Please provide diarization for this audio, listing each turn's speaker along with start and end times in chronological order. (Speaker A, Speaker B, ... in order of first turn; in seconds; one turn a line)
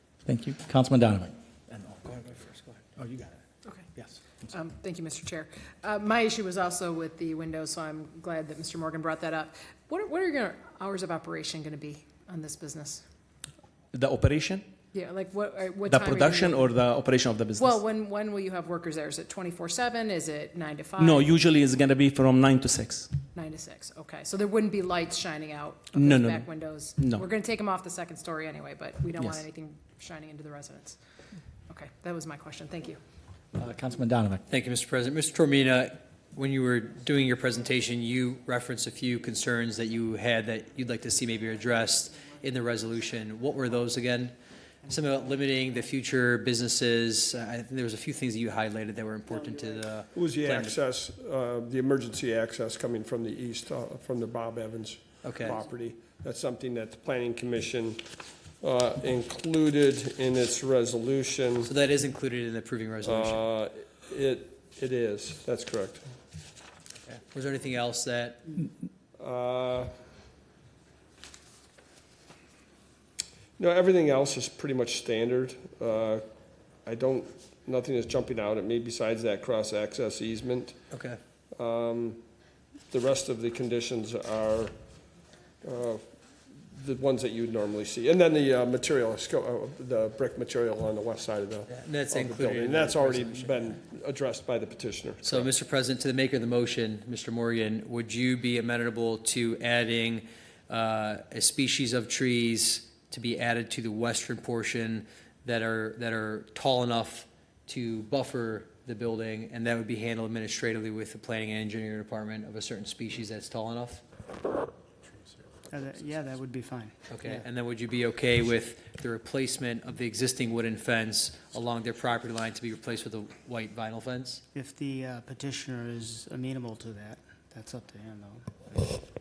Speaker A: 0.2-3.4
Speaker B: 4.5-13.0
Speaker C: 13.9-14.6
Speaker B: 14.9-16.8
Speaker C: 15.9-17.8
Speaker B: 17.6-21.4
Speaker C: 21.0-23.1
Speaker B: 23.3-31.0
Speaker C: 25.9-26.5
Speaker C: 27.0-27.2
Speaker C: 29.2-29.4
Speaker B: 31.7-33.0
Speaker A: 33.5-34.4
Speaker D: 34.5-44.3
Speaker D: 44.9-50.8
Speaker E: 50.1-58.0
Speaker D: 55.2-55.6
Speaker E: 58.6-61.7
Speaker D: 61.6-63.4
Speaker E: 63.0-66.0
Speaker D: 67.1-68.4
Speaker E: 69.2-69.9
Speaker E: 73.6-76.2
Speaker E: 76.8-80.8
Speaker D: 80.9-81.2
Speaker E: 81.5-82.2
Speaker E: 82.9-84.7
Speaker E: 85.6-86.0
Speaker E: 86.7-95.5
Speaker D: 91.7-93.8
Speaker D: 95.2-114.0
Speaker F: 115.7-117.4
Speaker D: 117.1-124.4
Speaker F: 124.5-129.0